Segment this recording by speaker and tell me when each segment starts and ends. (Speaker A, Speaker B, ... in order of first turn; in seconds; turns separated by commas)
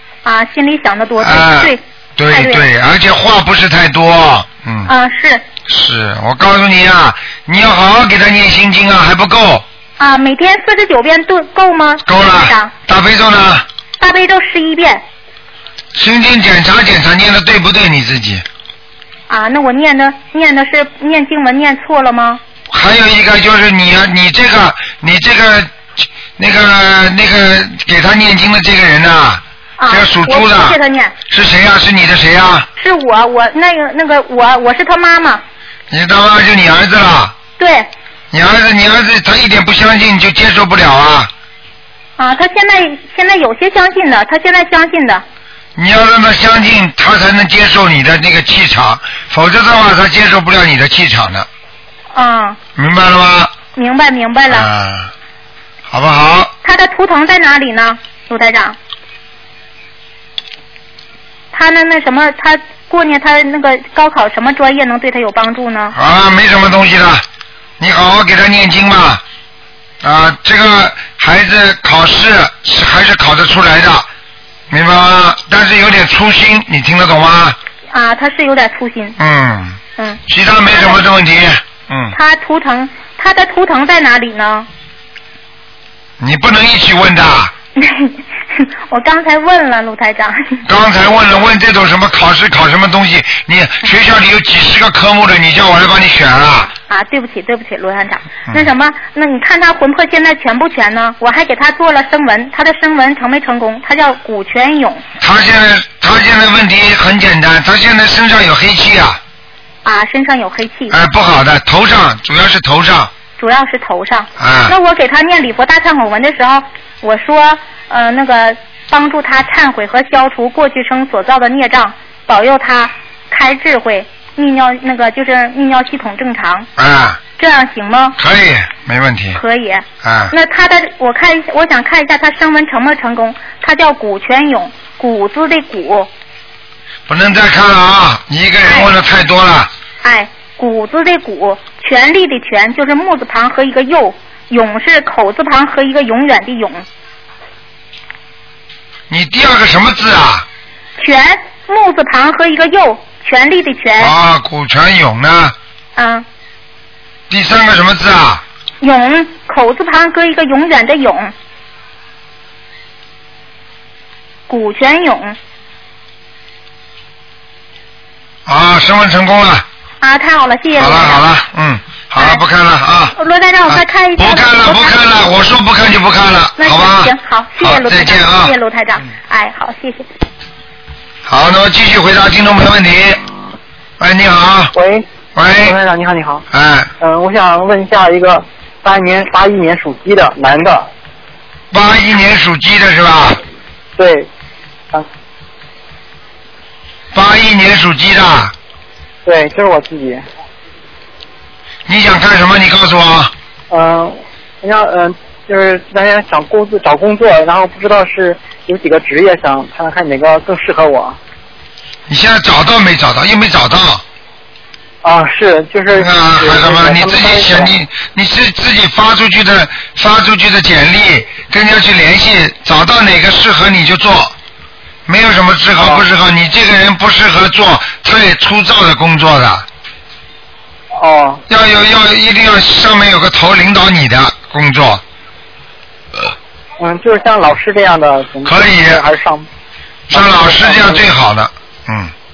Speaker A: 0.2-2.7, Speaker B: 1.2-4.9, Speaker A: 4.9-5.4, Speaker B: 5.7-9.7, Speaker A: 10.0-12.7, Speaker B: 12.1-13.7, Speaker A: 14.0-15.0, Speaker B: 15.9-18.4, Speaker A: 19.3-22.4, Speaker B: 22.7-30.8, Speaker A: 29.8-31.1, Speaker B: 31.3-32.7, Speaker A: 32.8-35.4, Speaker B: 35.9-37.3, Speaker A: 37.6-37.9, Speaker B: 38.3-41.3, Speaker A: 42.2-45.2, Speaker B: 45.8-51.5, Speaker A: 52.1-52.6, Speaker B: 52.8-53.5, Speaker A: 53.8-54.7, Speaker B: 54.5-55.1, Speaker B: 55.9-56.5, Speaker A: 56.6-58.8, Speaker A: 61.5-66.0, Speaker B: 65.9-67.2, Speaker B: 67.8-69.2, Speaker B: 70.0-74.1, Speaker B: 74.7-77.6, Speaker A: 77.9-79.2, Speaker B: 79.2-82.2, Speaker A: 80.0-81.0, Speaker A: 82.1-84.7, Speaker B: 86.2-87.5, Speaker A: 87.8-90.7, Speaker B: 90.7-96.7, Speaker A: 96.9-105.0, Speaker B: 105.2-109.2, Speaker A: 109.8-111.0, Speaker B: 110.9-113.1, Speaker A: 113.4-126.7, Speaker B: 114.4-114.8, Speaker B: 126.8-127.2, Speaker A: 127.4-128.2, Speaker B: 128.2-129.4, Speaker A: 129.3-136.1, Speaker B: 130.0-130.3, Speaker B: 137.1-139.7, Speaker A: 138.7-138.9, Speaker A: 140.0-146.8, Speaker B: 149.1-150.5, Speaker A: 151.0-154.1, Speaker B: 154.0-155.6, Speaker A: 156.0-156.2, Speaker B: 157.3-158.4, Speaker A: 158.8-161.3, Speaker A: 164.5-165.4, Speaker B: 168.5-169.7, Speaker A: 170.0-171.2, Speaker B: 170.8-173.2, Speaker A: 172.2-172.4, Speaker A: 173.2-175.0, Speaker B: 173.7-178.6, Speaker A: 176.6-180.1, Speaker B: 181.3-183.2, Speaker B: 184.0-184.7, Speaker C: 184.7-185.1, Speaker B: 185.3-185.8, Speaker C: 185.6-186.4, Speaker B: 186.5-186.9, Speaker C: 187.0-190.9, Speaker B: 191.7-193.4, Speaker C: 194.0-194.3, Speaker B: 197.1-198.5, Speaker C: 199.2-200.2, Speaker B: 201.9-203.3, Speaker C: 203.7-211.2, Speaker B: 212.1-214.0, Speaker C: 215.0-217.7, Speaker B: 216.0-224.3, Speaker B: 225.1-229.7, Speaker C: 225.8-226.1, Speaker C: 231.0-231.4, Speaker B: 231.5-235.0, Speaker C: 236.8-239.5, Speaker B: 238.4-239.0, Speaker C: 240.1-241.1, Speaker B: 240.1-242.1